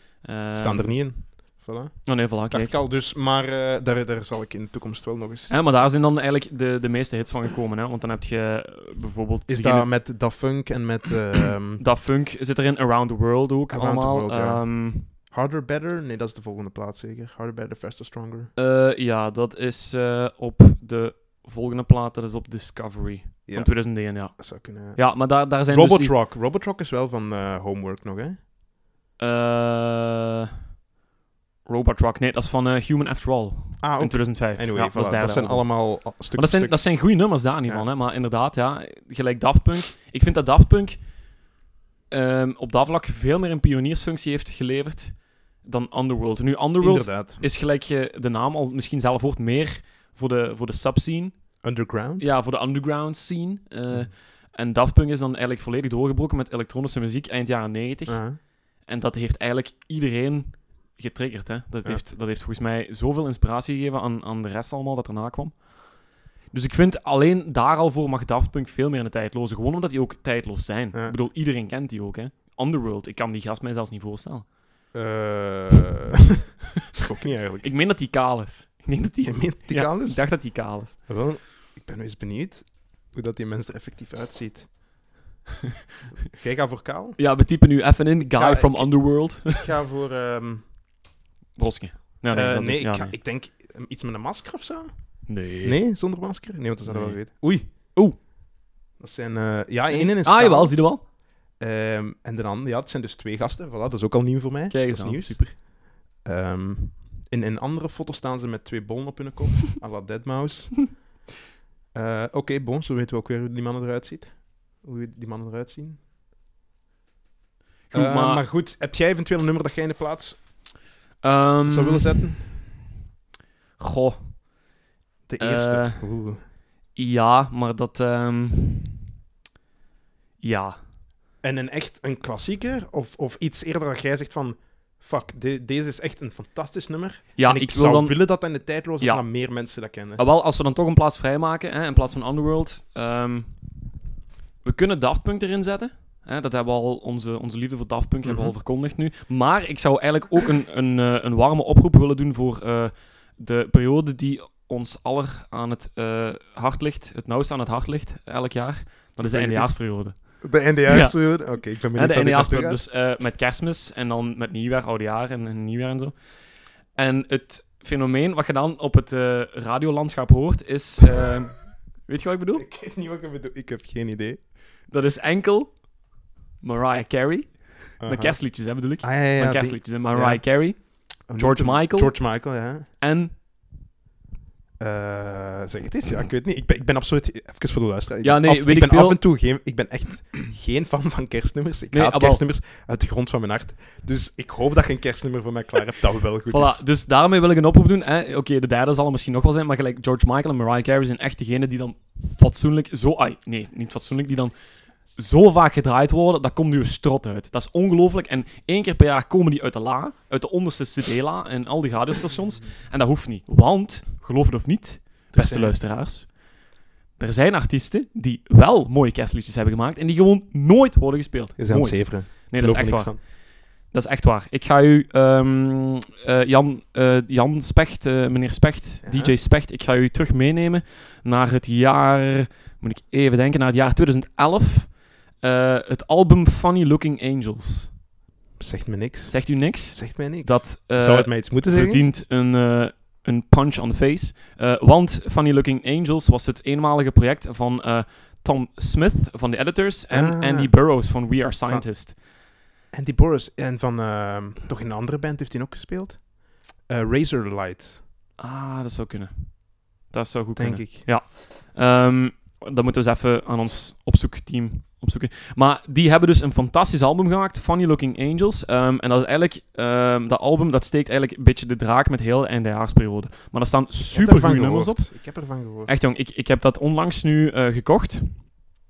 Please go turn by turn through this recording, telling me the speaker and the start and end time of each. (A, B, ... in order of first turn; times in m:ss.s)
0:00.2-0:01.2 A
0:00.6-0:05.5 B
0:02.0-0:02.8 A
0:05.5-0:10.1 A
0:09.5-0:11.8 B
0:11.7-0:15.1 A
0:13.7-0:18.5 B
0:18.6-0:26.2 A
0:23.5-0:28.4 B
0:29.2-0:30.4 A
0:31.6-0:41.1 A
0:33.8-0:36.8 B
0:42.1-0:51.4 A
0:46.8-0:47.4 B
0:51.6-0:52.2 B
0:52.2-1:14.6 A
0:58.1-0:58.4 B
1:14.9-1:16.2 B
1:17.0-1:17.7 B
1:17.6-1:21.1 A
1:19.2-1:25.0 B
1:26.1-1:27.2 B
1:27.2-1:29.7 A
1:28.3-1:30.7 B
1:31.5-1:33.1 A
1:32.3-1:37.7 B
1:35.3-1:35.9 A
1:36.8-1:38.2 A
1:39.0-1:41.0 B
1:39.9-1:41.0 A
1:41.6-1:51.1 B
1:44.7-1:45.5 A
1:51.9-1:56.0 B
1:57.9-1:58.4 A
1:57.9-2:00.4 B
2:01.2-2:02.5 A
2:01.6-2:02.5 B
2:03.8-2:04.5 A
2:05.3-2:06.4 B
2:05.4-2:06.2 A
2:06.9-2:08.9 A
2:10.4-2:10.8 A
2:11.4-2:20.2 B
2:17.4-2:19.5 A
2:20.2-2:23.6 A
2:24.6-2:46.2 A
2:28.2-2:28.5 B
2:39.2-2:42.8 B
2:46.9-2:52.6 A
2:52.5-2:54.4 B
2:54.9-3:03.3 A
2:58.0-3:02.9 B
3:04.8-3:16.8 B
3:08.2-3:09.2 A
3:11.9-3:12.4 A
3:16.5-3:36.4 A
3:35.3-3:35.7 B
3:37.2-3:58.0 A
3:41.6-3:43.2 B
3:49.0-3:49.3 B
3:58.6-4:02.0 B
3:59.3-4:12.2 A
4:10.1-4:11.9 B
4:12.9-4:18.0 B
4:18.4-4:38.5 A
4:20.6-4:21.1 B
4:34.1-4:35.9 B